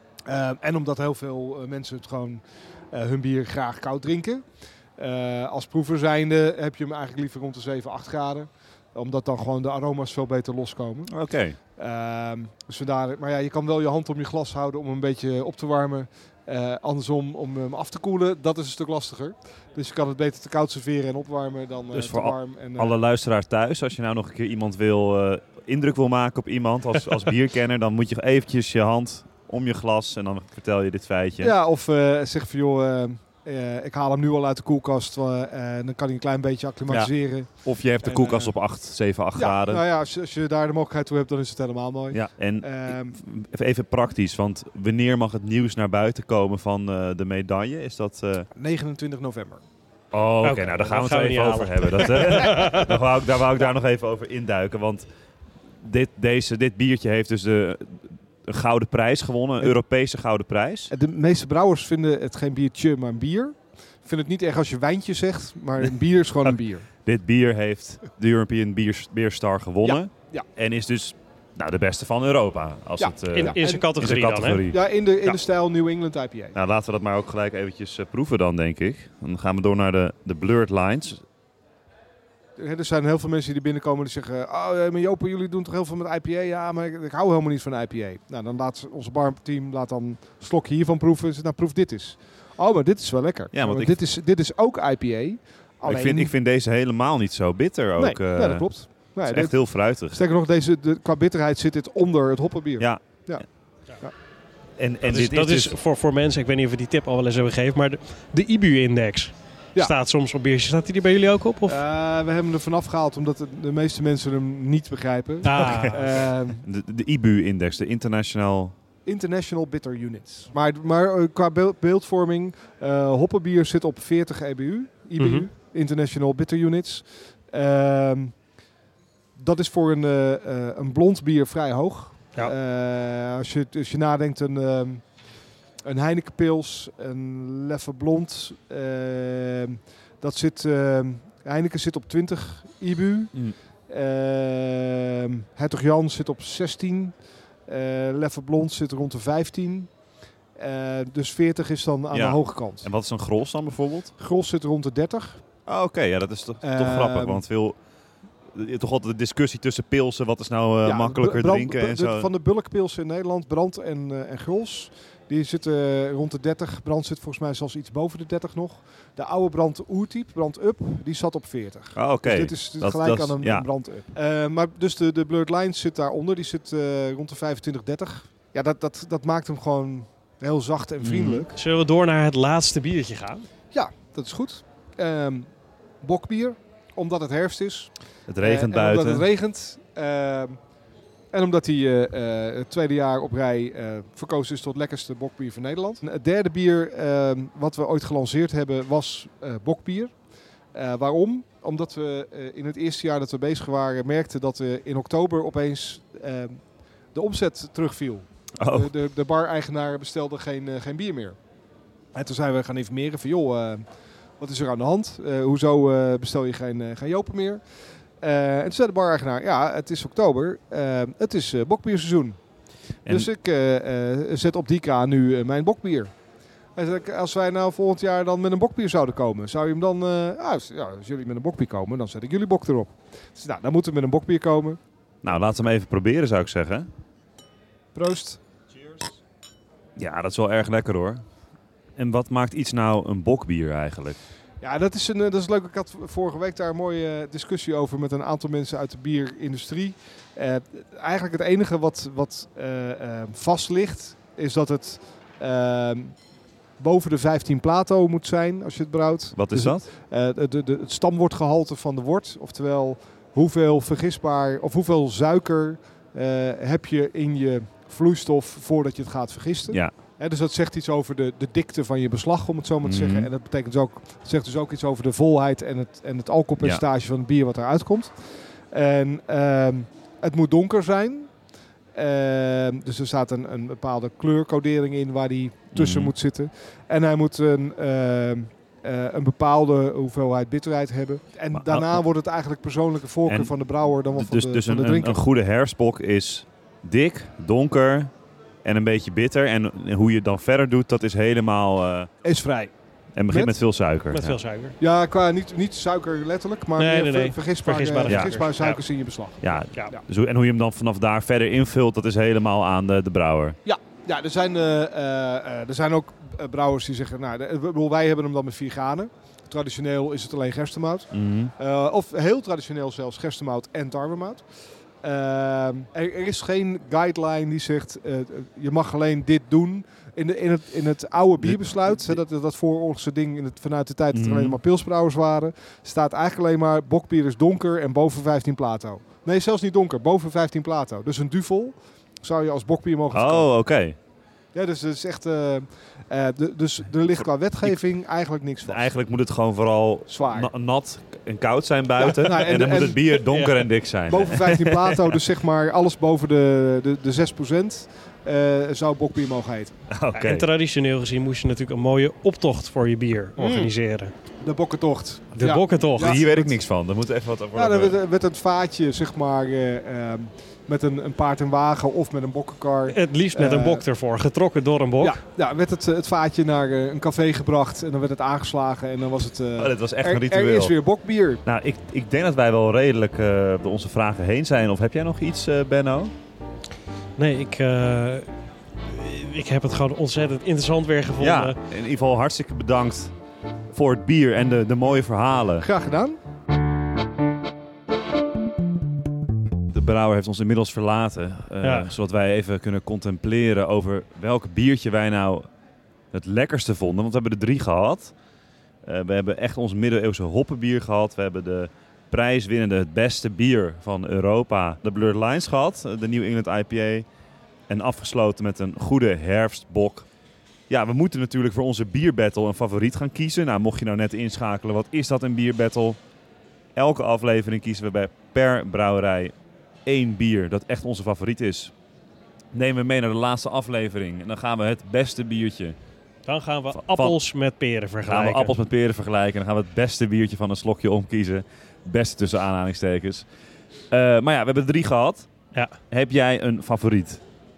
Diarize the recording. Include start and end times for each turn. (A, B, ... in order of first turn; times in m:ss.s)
0:00.2-0:23.0 A
0:11.1-0:11.6 B
0:21.9-0:31.5 B
0:31.4-0:43.2 A
0:36.9-0:39.8 B
0:42.1-0:48.5 B
0:48.5-0:49.6 A
0:50.1-0:55.0 B
0:50.4-0:52.9 C
0:55.8-1:00.9 B
1:00.9-1:06.9 A
1:06.4-1:14.9 B
1:09.8-1:10.4 A
1:13.0-1:13.9 A
1:13.3-1:14.7 C
1:14.6-1:16.5 A
1:16.5-1:21.2 B
1:22.6-1:36.3 A
1:33.5-1:34.0 B
1:35.8-1:40.2 B
1:38.0-1:44.2 A
1:42.8-1:43.5 B
1:44.8-1:45.8 B
1:45.0-1:51.8 C
1:51.6-1:56.6 A
1:55.4-1:56.0 C
1:55.6-1:58.7 B
1:59.0-2:08.5 A
2:05.2-2:05.5 C
2:09.4-2:32.9 A
2:32.1-2:34.1 B
2:34.2-2:35.4 A
2:35.7-2:37.8 B
2:36.6-2:37.4 A
2:38.5-2:42.3 B
2:40.8-3:01.6 A
2:51.9-2:53.7 B
3:01.0-3:01.4 B
3:01.5-3:03.5 C
3:03.7-3:10.7 A
3:08.3-3:09.3 B
3:11.3-3:31.4 A
3:28.6-3:28.9 B
3:32.1-3:46.2 A
3:46.7-3:54.8 A
3:55.2-3:56.9 B
3:57.9-3:58.4 A
4:00.0-4:01.2 B
4:02.0-4:04.2 B
4:04.6-4:55.2 A
4:19.3-4:19.8 B
4:29.7-4:29.9 B
4:32.8-4:33.3 B
4:45.7-4:46.1 B
4:51.5-4:52.0 B
4:53.2-4:58.1 B
4:58.6-5:02.1 B
5:02.2-5:02.7 A
5:03.1-5:04.4 B
5:03.2-5:03.6 A
5:04.1-5:04.8 C
5:04.8-5:10.0 A
5:06.8-5:09.0 C
5:08.0-5:08.3 B
5:09.4-5:13.6 B
5:13.6-5:43.5 A
5:21.1-5:21.5 B
5:31.4-5:32.2 B
5:34.1-5:34.6 B
5:43.1-5:44.0 B
5:44.5-5:48.9 A
5:47.6-5:47.9 B
5:48.6-5:55.1 B
5:50.1-5:50.5 A
5:52.0-5:53.2 A
5:53.2-5:53.6 C
5:54.1-5:59.8 A
5:59.9-6:00.5 B
6:00.1-6:04.1 C
6:03.4-6:03.7 A
6:04.4-6:06.6 A
6:05.4-6:06.2 C
6:06.0-6:08.0 B
6:07.5-6:13.8 A
6:12.9-6:15.2 C
6:15.0-6:21.4 A
6:19.6-6:26.1 B
6:27.2-6:28.3 C
6:28.8-6:31.6 C
6:31.2-6:33.1 B
6:33.7-6:35.6 B
6:35.6-6:36.2 A
6:39.7-6:45.4 B
6:41.6-6:41.9 C
6:46.1-6:48.1 B
6:48.8-6:57.0 B
6:57.7-7:00.0 B
7:00.7-7:06.0 B
7:06.7-7:11.7 B
7:12.5-7:15.8 B
7:16.2-7:18.5 C
7:16.7-7:17.2 B
7:18.0-7:23.2 B
7:23.9-7:25.3 B
7:25.9-7:27.2 B